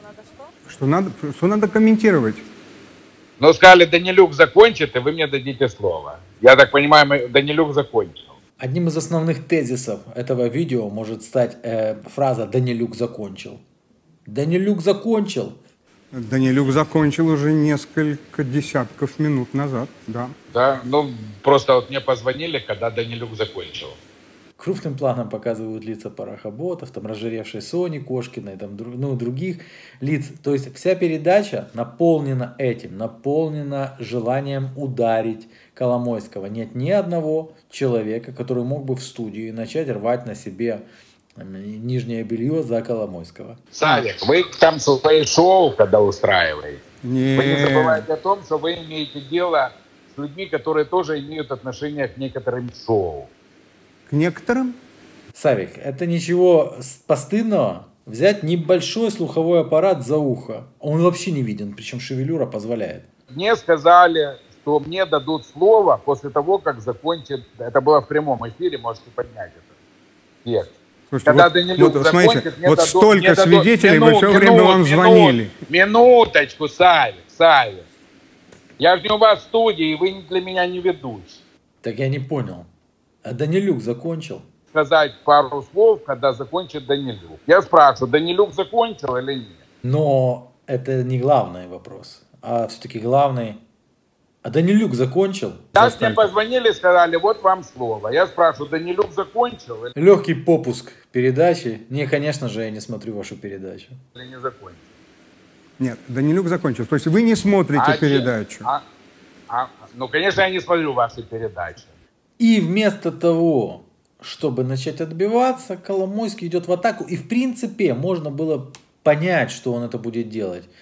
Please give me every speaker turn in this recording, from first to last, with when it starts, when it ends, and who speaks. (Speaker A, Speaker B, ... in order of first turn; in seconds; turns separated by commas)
Speaker A: 0.7-2.5, Speaker B: 3.4-8.3, Speaker C: 8.6-13.6, Speaker C: 14.3-15.6, Speaker A: 16.1-20.4, Speaker B: 20.5-24.0, Speaker C: 24.6-40.8, Speaker C: 41.4-44.0, Speaker B: 43.8-46.8, Speaker A: 47.0-48.0, Speaker B: 47.4-53.3, Speaker A: 54.1-54.8, Speaker C: 55.4-63.0, Speaker B: 63.3-69.7, Speaker B: 70.5-77.9, Speaker A: 71.1-75.5, Speaker B: 78.8-81.4, Speaker C: 81.8-82.7, Speaker C: 83.2-84.5, Speaker B: 84.7-89.6, Speaker C: 89.8-93.6, Speaker C: 94.4-95.8, Speaker B: 95.8-99.9, Speaker A: 95.8-96.3, Speaker C: 100.0-104.0, Speaker B: 104.2-104.9, Speaker A: 105.8-108.7, Speaker B: 107.8-108.8, Speaker B: 109.5-111.9, Speaker C: 112.4-120.7